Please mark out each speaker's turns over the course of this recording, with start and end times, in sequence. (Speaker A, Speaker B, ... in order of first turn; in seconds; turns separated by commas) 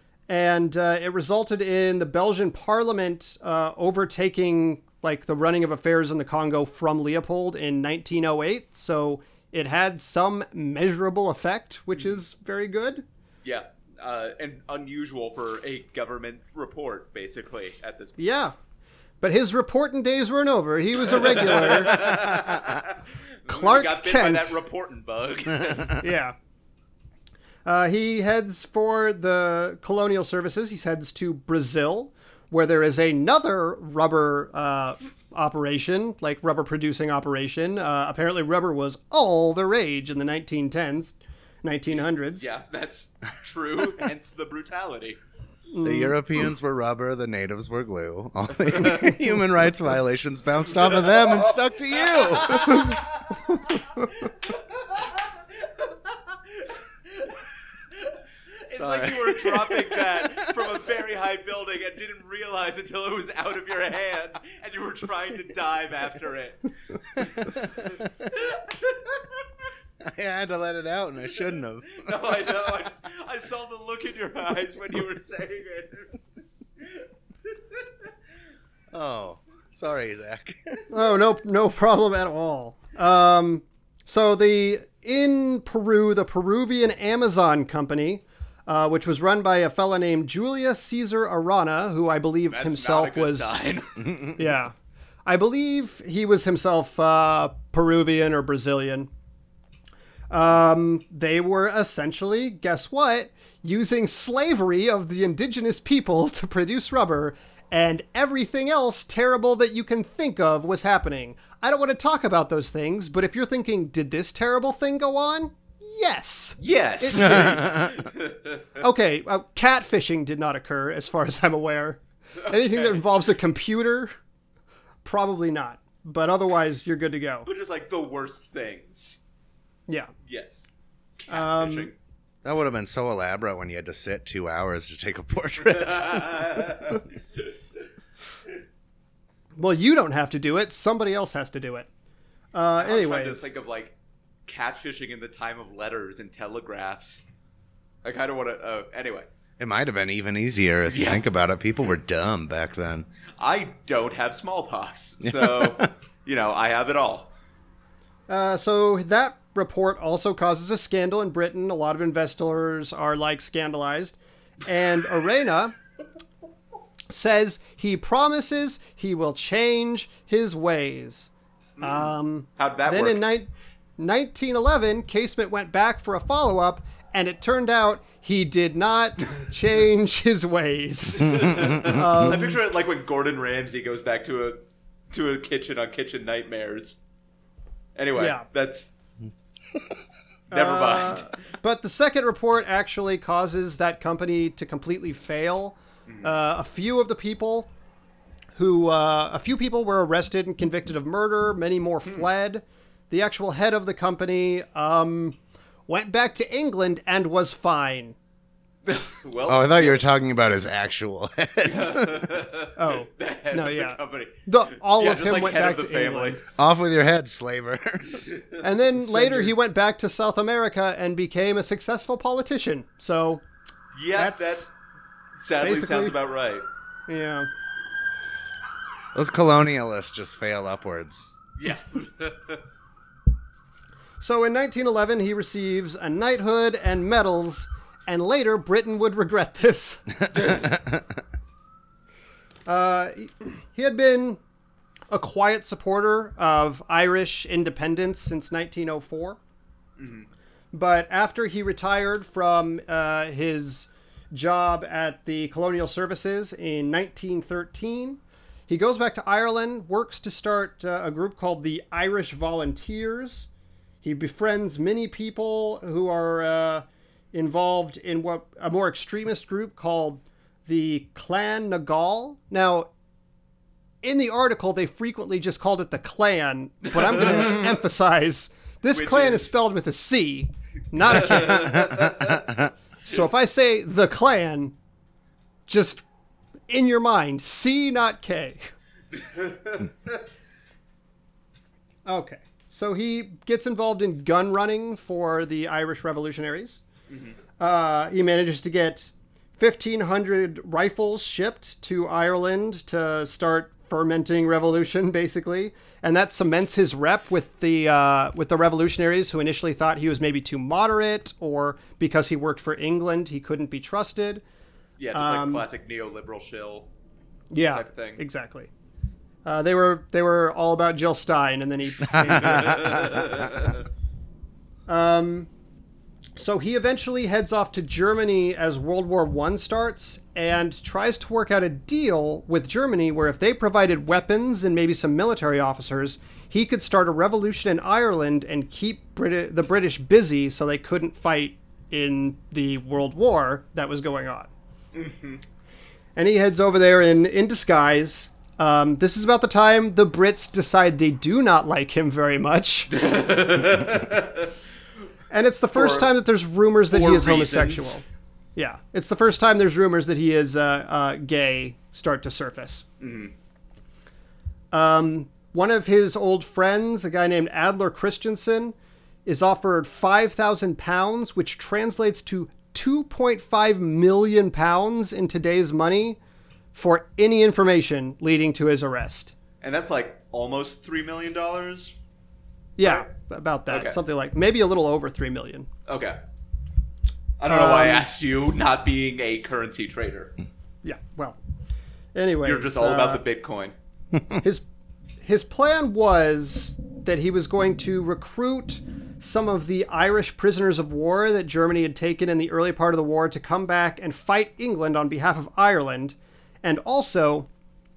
Speaker A: 0.3-13.0, Speaker B: 13.4-18.2, Speaker A: 18.2-18.6, Speaker A: 19.2-22.1, Speaker B: 21.0-26.0, Speaker A: 23.5-24.6, Speaker A: 26.0-26.4, Speaker A: 27.6-42.5, Speaker B: 41.9-45.2, Speaker A: 45.7-46.2, Speaker C: 45.8-53.0, Speaker B: 50.9-55.2, Speaker B: 58.6-66.6, Speaker C: 58.8-60.7, Speaker B: 67.2-69.3, Speaker C: 70.0-72.1, Speaker B: 71.9-76.2, Speaker C: 78.9-80.8, Speaker A: 80.9-93.5, Speaker B: 92.5-94.1, Speaker A: 94.4-94.7, Speaker A: 95.3-99.1, Speaker A: 100.3-117.7, Speaker B: 116.6-118.6, Speaker C: 117.2-118.1, Speaker A: 118.8-124.1, Speaker A: 125.0-127.5, Speaker B: 127.5-129.2, Speaker B: 130.3-130.7, Speaker B: 131.2-131.9, Speaker A: 131.3-131.9, Speaker C: 132.4-136.9, Speaker B: 135.8-137.0, Speaker A: 139.6-141.9, Speaker A: 142.5-143.5, Speaker B: 142.8-143.9, Speaker B: 144.5-147.2, Speaker B: 148.0-149.3, Speaker C: 149.6-153.1, Speaker B: 150.9-151.2, Speaker B: 153.4-157.3, Speaker C: 155.2-155.9, Speaker A: 158.3-165.8, Speaker A: 167.1-171.3, Speaker B: 171.8-173.2, Speaker A: 171.8-182.6, Speaker B: 181.2-187.0, Speaker C: 181.3-182.2, Speaker B: 188.0-188.9, Speaker A: 188.2-188.4, Speaker B: 190.5-191.3, Speaker A: 190.5-197.7, Speaker A: 198.6-205.4, Speaker A: 205.9-208.2, Speaker B: 208.9-210.1, Speaker C: 209.5-212.3, Speaker B: 211.6-216.4, Speaker A: 212.8-216.4, Speaker C: 216.6-218.2, Speaker B: 218.2-219.5, Speaker A: 218.6-223.4, Speaker B: 223.9-224.7, Speaker A: 224.2-224.7, Speaker B: 225.4-226.7, Speaker A: 225.6-226.2, Speaker A: 227.1-227.5, Speaker C: 229.1-231.3, Speaker B: 231.6-232.6, Speaker A: 234.2-240.2, Speaker C: 240.4-241.2, Speaker A: 242.7-244.4, Speaker A: 245.1-249.4, Speaker B: 250.0-250.3, Speaker A: 250.7-263.5, Speaker A: 264.0-272.9, Speaker A: 274.0-282.1, Speaker B: 276.9-277.6, Speaker B: 278.9-279.5, Speaker B: 281.1-282.3, Speaker C: 281.5-282.7, Speaker A: 283.0-284.8, Speaker A: 285.7-286.0, Speaker A: 286.7-288.7, Speaker A: 292.1-296.8, Speaker B: 297.1-297.4, Speaker A: 297.6-314.4, Speaker B: 315.0-316.9, Speaker A: 315.1-315.6, Speaker A: 317.5-318.7, Speaker B: 317.6-318.2, Speaker A: 319.4-323.0, Speaker C: 322.1-323.5, Speaker B: 322.3-323.8, Speaker A: 324.9-325.5, Speaker A: 326.4-344.5, Speaker B: 344.9-345.4, Speaker A: 346.2-352.9, Speaker B: 352.9-354.5, Speaker A: 355.3-358.0, Speaker B: 355.7-356.1, Speaker B: 356.9-358.0, Speaker A: 358.6-362.9, Speaker B: 363.0-363.3, Speaker A: 364.7-368.7, Speaker A: 369.3-376.2, Speaker A: 376.8-379.4, Speaker B: 379.6-381.9, Speaker A: 382.8-385.7, Speaker B: 382.8-383.1, Speaker B: 383.7-384.0, Speaker B: 385.9-386.2, Speaker B: 387.4-390.3, Speaker A: 387.5-388.1, Speaker A: 390.8-391.4, Speaker A: 392.1-393.2, Speaker B: 392.4-393.8, Speaker A: 395.2-407.5